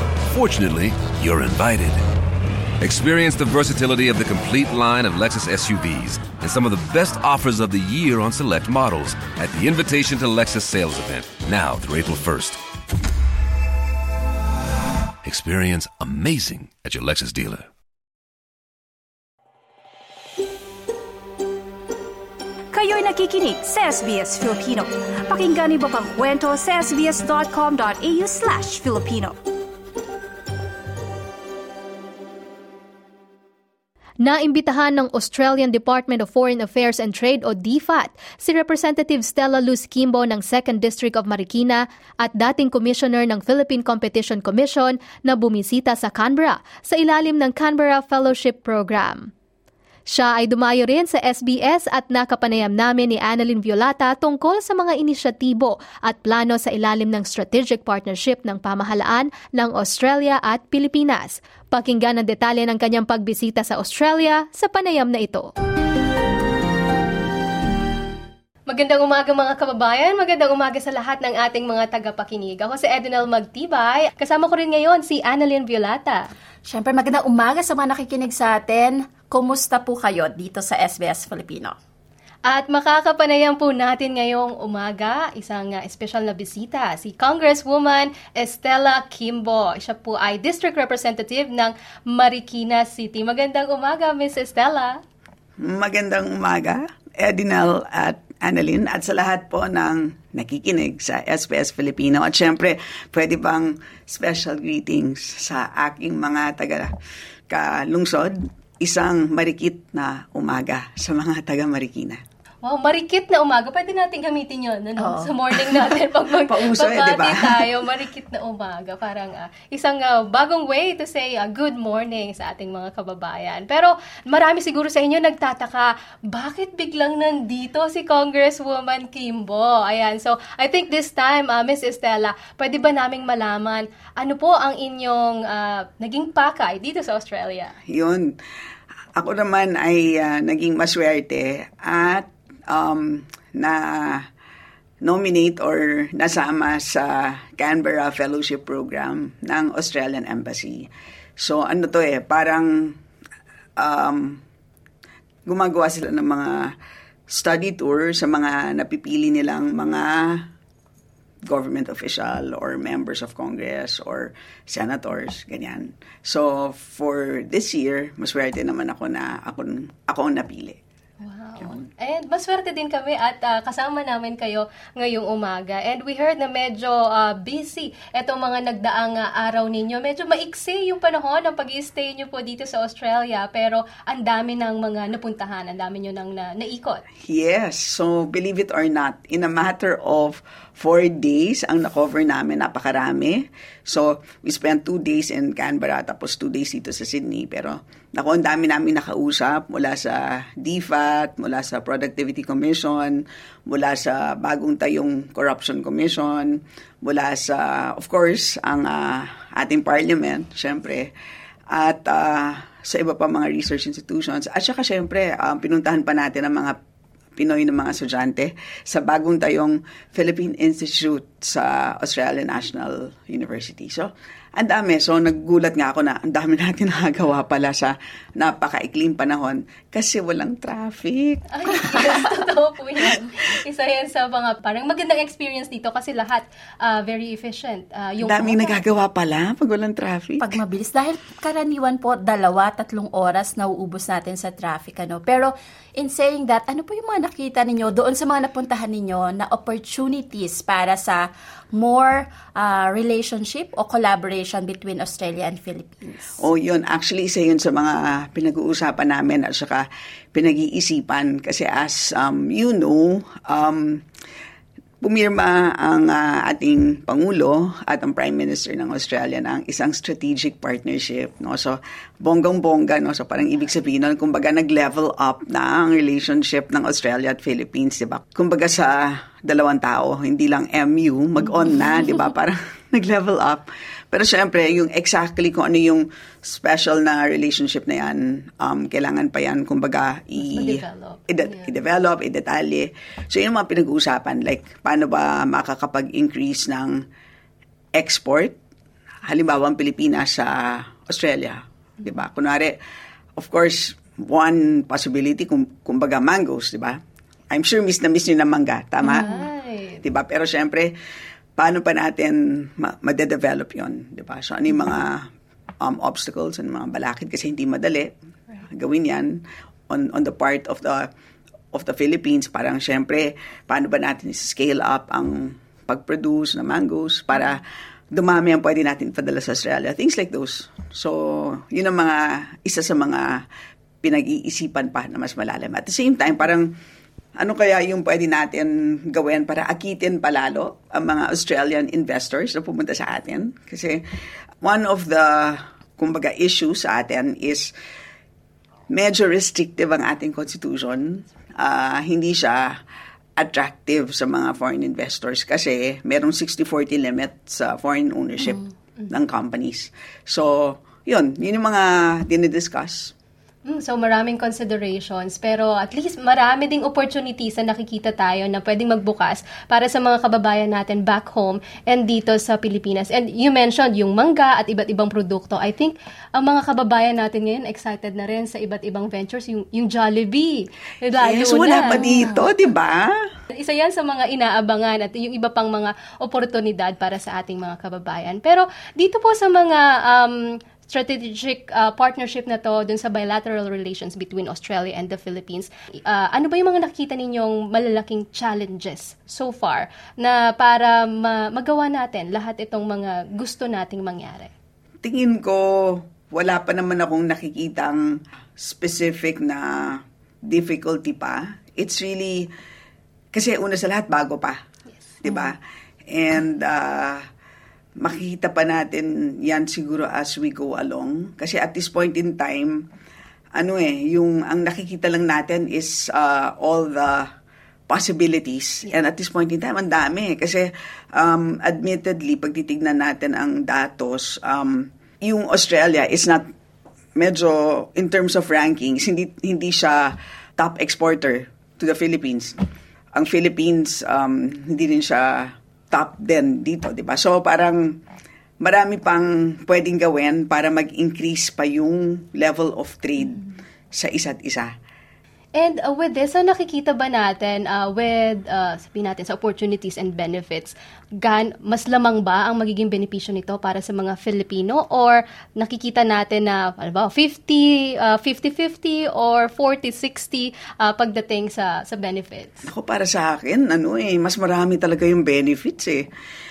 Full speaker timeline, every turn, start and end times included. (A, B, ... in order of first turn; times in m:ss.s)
0:00.3-0:02.0 A
0:02.8-0:12.6 A
0:15.2-0:17.7 A
0:22.7-0:29.4 B
0:34.2-0:49.3 C
0:50.1-1:05.5 C
1:08.7-1:16.2 C
1:16.7-1:21.8 D
1:22.4-1:35.0 C
1:35.6-1:46.9 E
1:47.5-1:52.2 E
1:52.6-2:17.8 C
1:55.0-1:55.3 D
1:56.5-1:57.7 E
2:17.9-2:18.4 E
2:19.2-2:24.3 E
2:25.0-2:30.9 E
2:31.4-2:33.0 E
2:33.8-2:34.4 E
2:35.5-2:36.7 E
2:37.3-2:40.5 E
2:41.5-2:50.8 E
2:51.2-3:07.0 C
3:07.2-3:31.1 E
3:31.7-3:36.8 E
3:37.4-3:52.2 E
3:51.5-3:58.8 C
3:58.2-4:00.6 E
4:00.4-4:16.2 D
4:16.4-4:24.0 E
4:25.0-4:57.0 E
4:50.4-4:51.7 C
4:58.0-4:58.6 E
4:59.2-5:02.8 E
5:03.4-5:07.0 E
5:07.5-5:09.5 E
5:09.0-5:10.0 C
5:10.0-5:10.9 E
5:11.6-5:15.3 E
5:15.8-5:21.1 E
5:21.7-5:33.4 E
5:34.0-5:36.7 E
5:37.4-5:44.0 E
5:44.6-5:47.7 E
5:48.9-5:52.8 E
5:53.4-6:03.1 E
6:03.6-6:22.4 C
6:21.2-6:23.2 E
6:23.5-6:44.5 C
6:45.0-6:52.5 E
6:53.3-6:54.6 E
6:55.0-6:55.3 C
6:55.2-6:57.3 E
6:58.0-7:02.8 E
7:03.6-7:07.3 E
7:07.9-7:16.4 E
7:17.2-7:22.6 E
7:23.2-7:28.0 E
7:28.6-7:34.7 E
7:35.6-7:52.7 C
7:52.7-7:56.0 E